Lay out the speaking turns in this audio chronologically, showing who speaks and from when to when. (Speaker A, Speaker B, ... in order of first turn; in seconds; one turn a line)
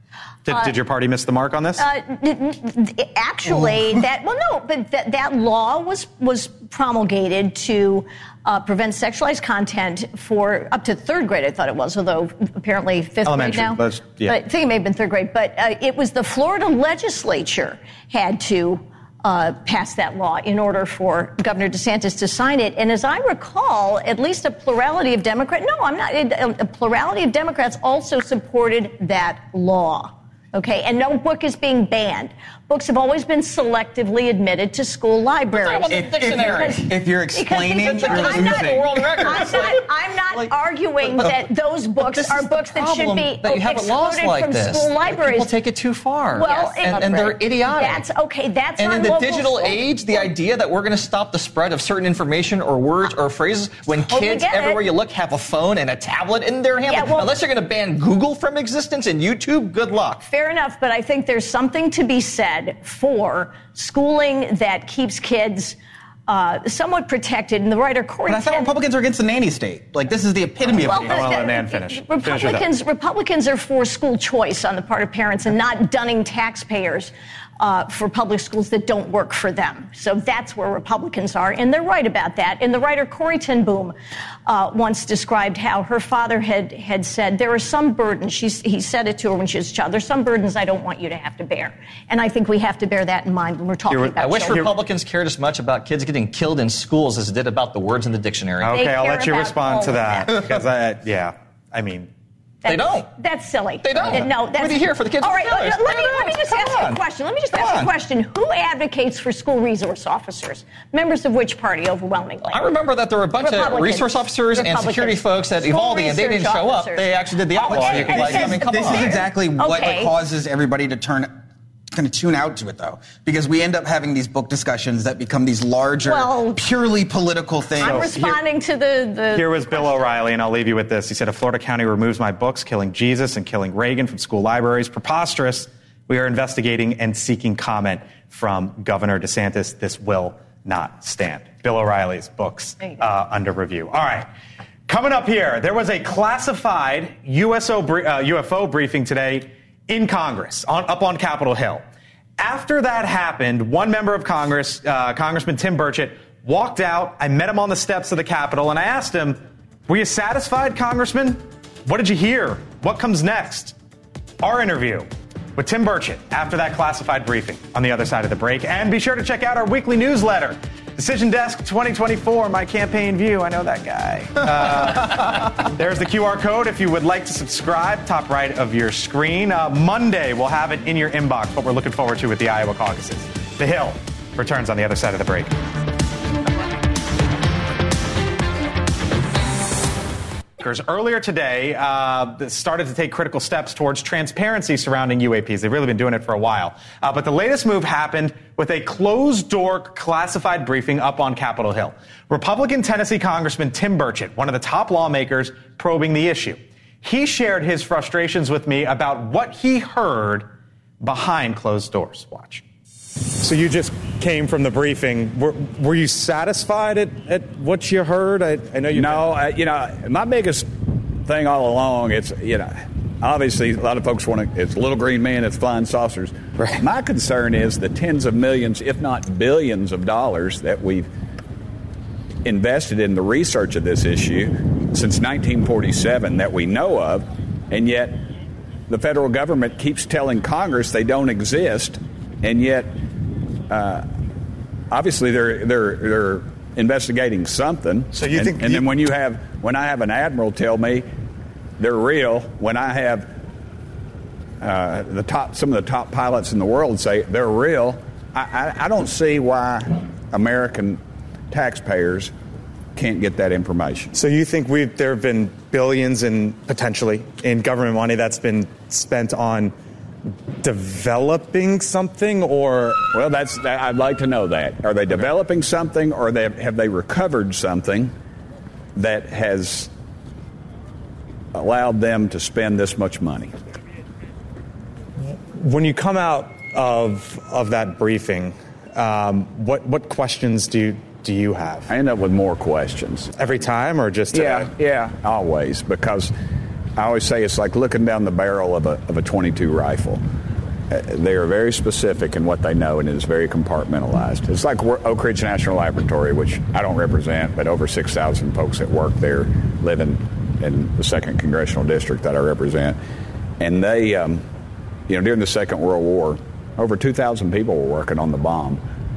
Speaker A: 0.5-1.8
Speaker B: 0.5-0.7
Speaker B: 1.8-45.5
Speaker C: 3.5-3.9
Speaker A: 13.2-14.4
Speaker D: 35.5-36.9
Speaker C: 35.8-39.7
Speaker D: 37.7-48.1
Speaker B: 46.3-50.3
Speaker D: 48.8-60.2
Speaker B: 53.9-54.8
Speaker B: 56.9-57.3
Speaker B: 60.2-68.7
Speaker C: 68.2-71.3
Speaker B: 70.7-83.9
Speaker A: 70.8-72.7
Speaker B: 84.5-94.7
Speaker A: 93.9-94.7
Speaker D: 94.2-98.7
Speaker A: 98.6-102.1
Speaker B: 98.7-100.3
Speaker D: 102.6-103.1
Speaker B: 102.6-112.6
Speaker D: 103.8-107.0
Speaker D: 107.5-107.9
Speaker D: 112.5-119.3
Speaker B: 113.3-120.1
Speaker C: 117.7-121.3
Speaker C: 121.9-128.1
Speaker B: 126.0-126.6
Speaker B: 127.8-130.1
Speaker A: 127.8-128.4
Speaker A: 129.3-144.3
Speaker A: 144.9-151.8
Speaker A: 152.4-163.7
Speaker A: 164.4-185.5
Speaker A: 190.6-210.5
Speaker A: 211.0-212.6
Speaker A: 213.4-219.3
Speaker E: 218.9-231.1
Speaker E: 232.4-238.3
Speaker E: 238.9-243.0
Speaker E: 243.7-244.1
Speaker E: 244.9-251.1
Speaker A: 248.1-248.8
Speaker E: 251.8-253.3
Speaker E: 254.6-262.3
Speaker E: 262.9-264.1
Speaker A: 264.1-269.7
Speaker A: 270.6-273.1
Speaker E: 273.1-278.1
Speaker E: 278.9-279.9
Speaker E: 281.5-283.5
Speaker A: 285.2-291.9
Speaker E: 291.9-293.5
Speaker A: 293.4-294.7
Speaker E: 294.3-296.3
Speaker E: 296.9-300.2
Speaker E: 300.9-313.0
Speaker E: 313.6-314.4
Speaker E: 315.1-318.8